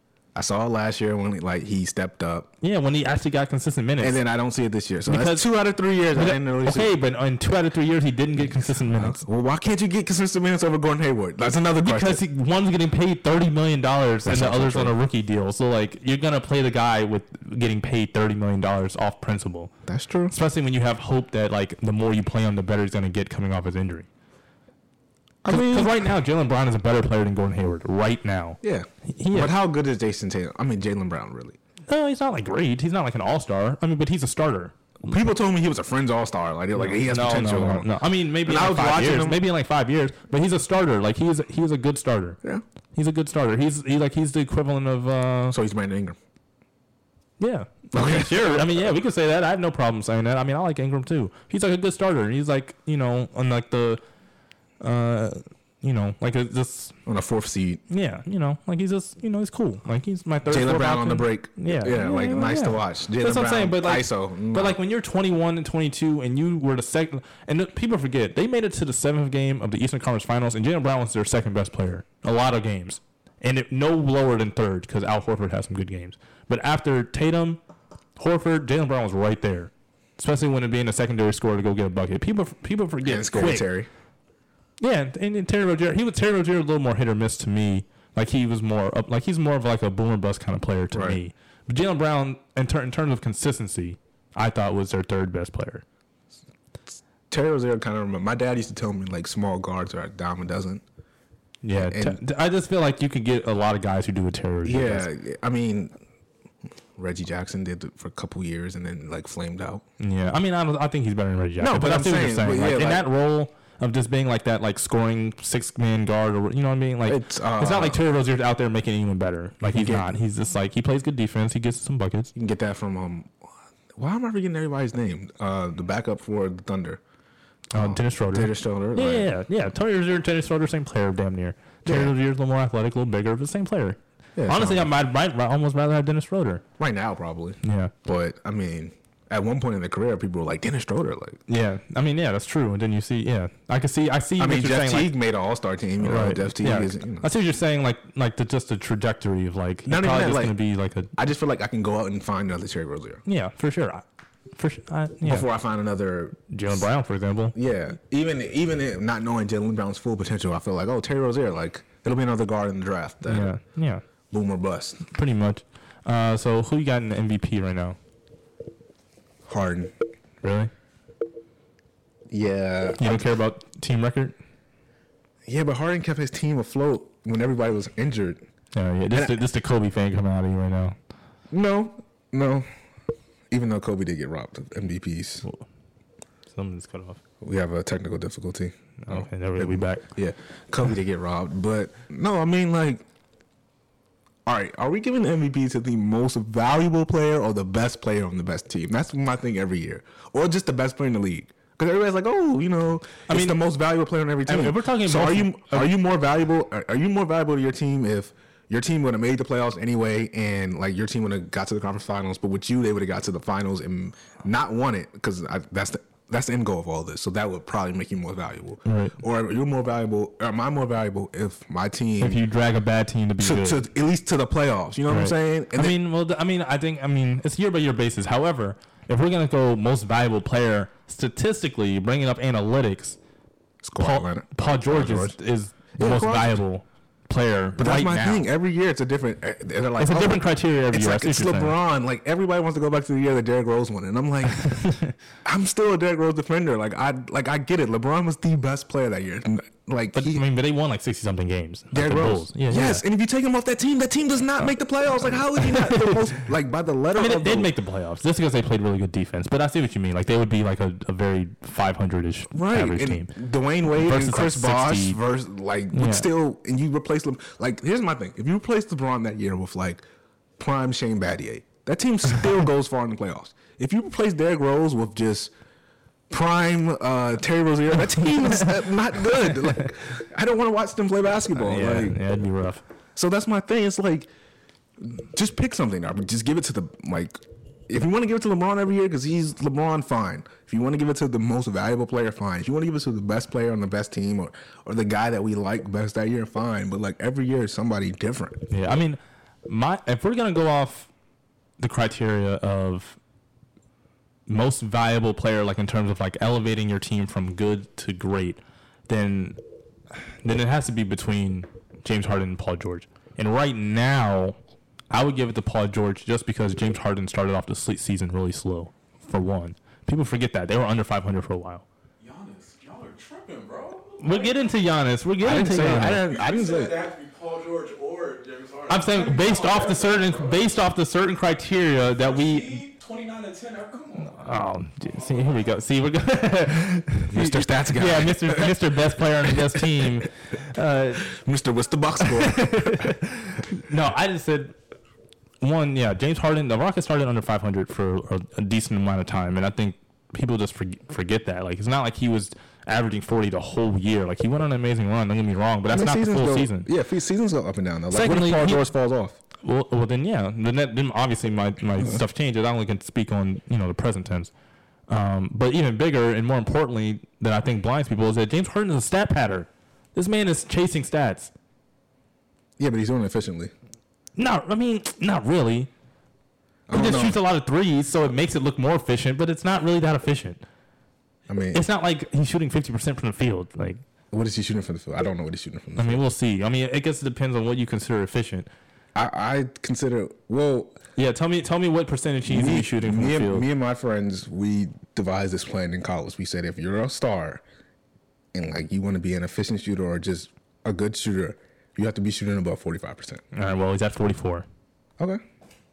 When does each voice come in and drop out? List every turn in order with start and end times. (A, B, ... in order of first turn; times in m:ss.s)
0:00.3-0:02.5 A
0:02.6-0:04.2 B
0:04.0-0:07.0 A
0:05.0-0:05.5 B
0:06.1-0:09.2 B
0:08.9-0:12.2 A
0:11.8-0:19.7 B
0:14.2-0:15.0 A
0:19.8-0:20.3 A
0:20.3-0:24.1 B
0:25.4-0:26.1 A
0:25.5-0:29.6 B
0:28.6-0:31.6 A
0:31.9-0:34.7 B
0:35.0-0:37.9 A
0:36.9-0:42.4 B
0:38.4-0:39.4 A
0:42.9-0:45.6 B
0:45.5-0:46.2 A
0:47.4-0:54.0 B
0:47.9-0:48.8 A
0:54.8-0:56.9 B
0:57.0-0:57.8 A
0:57.9-1:17.6 B
1:00.5-1:04.8 A
1:18.2-1:23.7 B
1:23.0-1:23.9 A
1:24.8-1:35.8 B
1:30.9-1:31.2 A
1:36.9-1:40.8 A
1:41.6-1:45.1 B
1:41.8-1:42.2 A
1:44.6-1:45.9 A
1:47.0-1:49.8 A
1:50.0-2:02.3 B
1:51.6-1:53.1 A
1:57.0-1:58.0 A
1:59.6-2:00.1 A
2:02.3-2:03.3 A
2:04.0-2:07.0 A
2:07.7-2:16.6 B
2:07.7-2:09.3 A
2:11.8-2:12.1 A
2:14.4-2:14.9 A
2:16.8-2:21.4 A
2:17.6-2:17.9 B
2:21.5-2:25.1 B
2:24.4-2:27.3 A
2:26.0-2:31.1 B
2:29.8-2:30.6 A
2:31.2-2:33.2 A
2:33.2-2:34.0 B
2:34.6-2:35.5 B
2:35.2-2:36.8 A
2:36.5-2:37.6 B
2:37.5-2:43.5 A
2:43.3-2:44.0 B
2:44.3-2:45.0 A
2:45.1-2:48.0 B
2:49.4-2:49.9 A
2:50.4-2:50.7 B
2:52.3-2:53.3 A
2:53.0-2:54.4 B
2:55.4-2:58.4 A
2:58.7-3:01.0 B
2:59.1-2:59.4 A
3:01.5-3:02.7 A
3:03.5-3:05.4 A
3:06.5-3:07.2 B
3:07.4-3:13.0 A
3:09.0-3:10.0 B
3:14.4-3:42.4 A
3:23.3-3:23.6 B
3:24.4-3:25.9 B
3:38.8-3:39.2 B
3:42.2-3:43.8 B
3:43.4-3:46.0 A
3:45.1-3:53.2 B
3:53.8-3:55.4 A
3:54.0-3:58.5 B
3:56.0-3:56.6 A
3:57.8-4:04.9 A
4:00.0-4:01.7 B
4:04.6-4:05.1 B
4:05.4-4:10.4 A
4:10.1-4:13.0 B
4:11.9-4:17.7 A
4:15.3-4:16.3 B
4:17.1-4:23.3 B
4:22.5-4:30.0 A
4:23.9-4:25.2 B
4:25.9-4:26.3 B
4:30.6-4:35.5 A
4:36.3-4:42.2 A
4:41.5-4:42.8 B
4:43.2-4:44.3 A
4:45.0-4:58.6 A
4:58.7-5:01.1 B
5:01.8-5:03.2 B
5:04.5-5:09.6 B
5:10.2-5:14.6 B
5:15.1-5:21.8 B
5:22.2-5:24.7 C
5:24.2-5:26.2 B
5:25.4-5:27.0 A
5:26.0-5:30.7 C
5:28.9-5:32.8 B
5:32.0-5:34.4 C
5:34.3-5:41.3 B
5:35.0-5:35.7 C
5:37.3-5:38.9 A
5:39.4-5:40.1 A
5:41.2-5:43.1 A
5:42.2-5:44.7 B
5:45.6-5:56.9 B
5:55.9-5:59.4 A
5:58.1-5:58.8 B
5:59.6-6:04.5 B
6:05.1-6:11.5 B
6:12.8-6:13.7 A
6:14.4-6:15.9 B
6:16.9-6:17.4 A
6:16.9-6:20.6 B
6:21.5-6:21.8 A
6:21.7-6:24.0 B
6:24.3-6:26.2 A
6:26.0-6:28.7 B
6:29.1-6:31.0 A
6:31.2-6:33.6 B
6:32.4-6:37.6 A
6:38.5-6:43.4 A
6:43.5-6:44.6 B